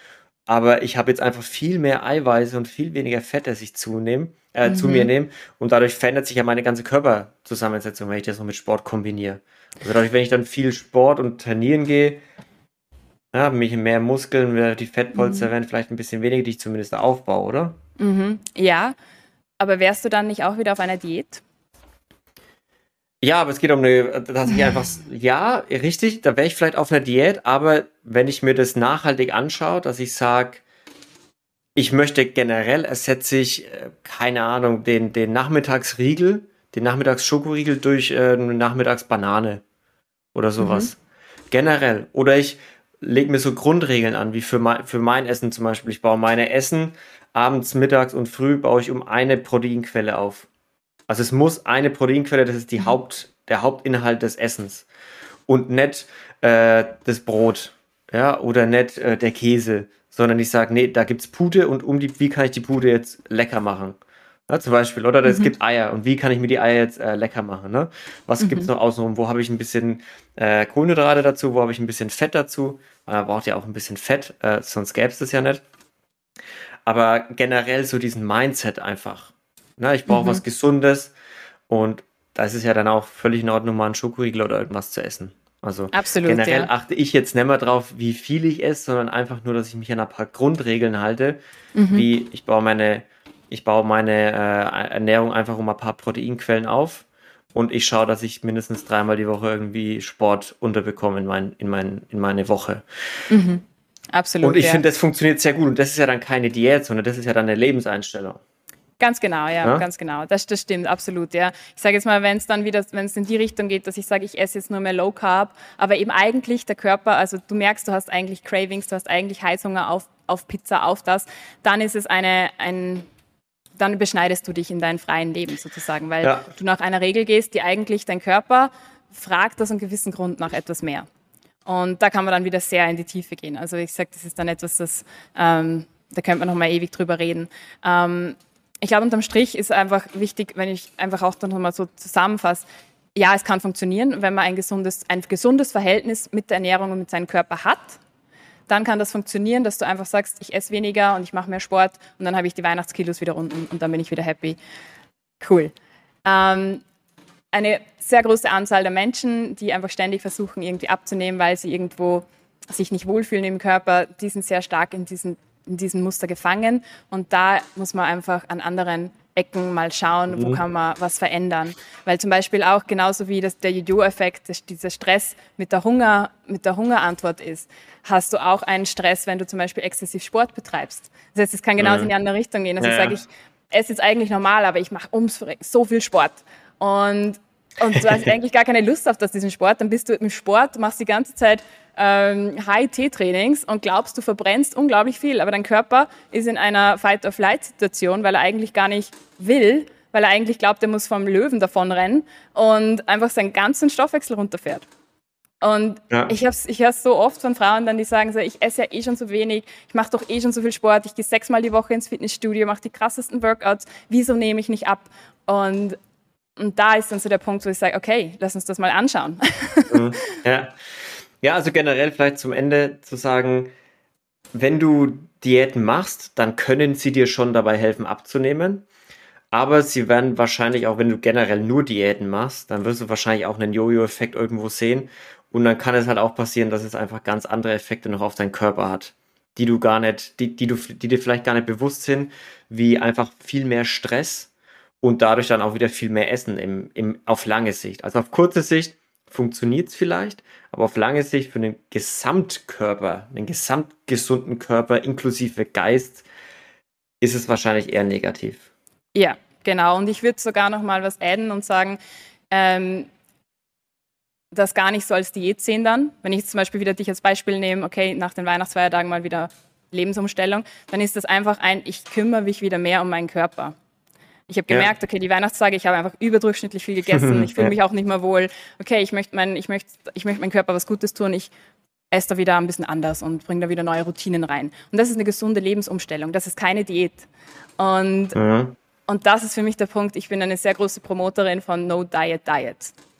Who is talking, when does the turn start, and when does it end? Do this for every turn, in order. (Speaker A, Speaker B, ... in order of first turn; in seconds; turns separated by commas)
Speaker A: 0.5-12.2, Speaker B: 4.7-5.1, Speaker A: 13.3-17.8, Speaker B: 15.1-15.5, Speaker B: 18.0-18.9, Speaker B: 19.6-21.4, Speaker A: 23.2-30.6, Speaker A: 31.8-39.6, Speaker A: 40.3-41.0, Speaker B: 40.6-40.9, Speaker A: 41.5-50.5, Speaker A: 51.1-54.9, Speaker A: 55.5-75.6, Speaker B: 65.2-65.5, Speaker B: 68.4-68.7, Speaker A: 76.8-81.1, Speaker B: 80.1-80.4, Speaker A: 81.7-91.4, Speaker B: 85.9-86.7, Speaker B: 91.7-92.0, Speaker A: 91.9-102.8, Speaker B: 103.3-104.8, Speaker A: 104.4-108.4, Speaker B: 109.0-123.1, Speaker B: 123.8-131.1, Speaker A: 126.2-126.5, Speaker B: 131.7-148.0, Speaker B: 148.7-154.6, Speaker B: 155.4-155.7, Speaker B: 156.2-156.8, Speaker B: 157.5-204.8, Speaker A: 170.3-170.6, Speaker A: 181.8-182.1, Speaker A: 182.8-183.2, Speaker B: 205.6-215.9, Speaker B: 216.6-220.0, Speaker A: 219.9-220.8, Speaker A: 221.4-223.7, Speaker A: 224.5-228.8, Speaker A: 229.5-244.5, Speaker A: 245.0-256.2, Speaker A: 257.2-258.7, Speaker B: 259.1-262.0, Speaker B: 262.5-263.1, Speaker B: 264.5-273.8, Speaker B: 274.5-281.5, Speaker A: 277.1-277.7, Speaker B: 282.1-288.4, Speaker A: 288.3-288.8, Speaker B: 289.1-292.9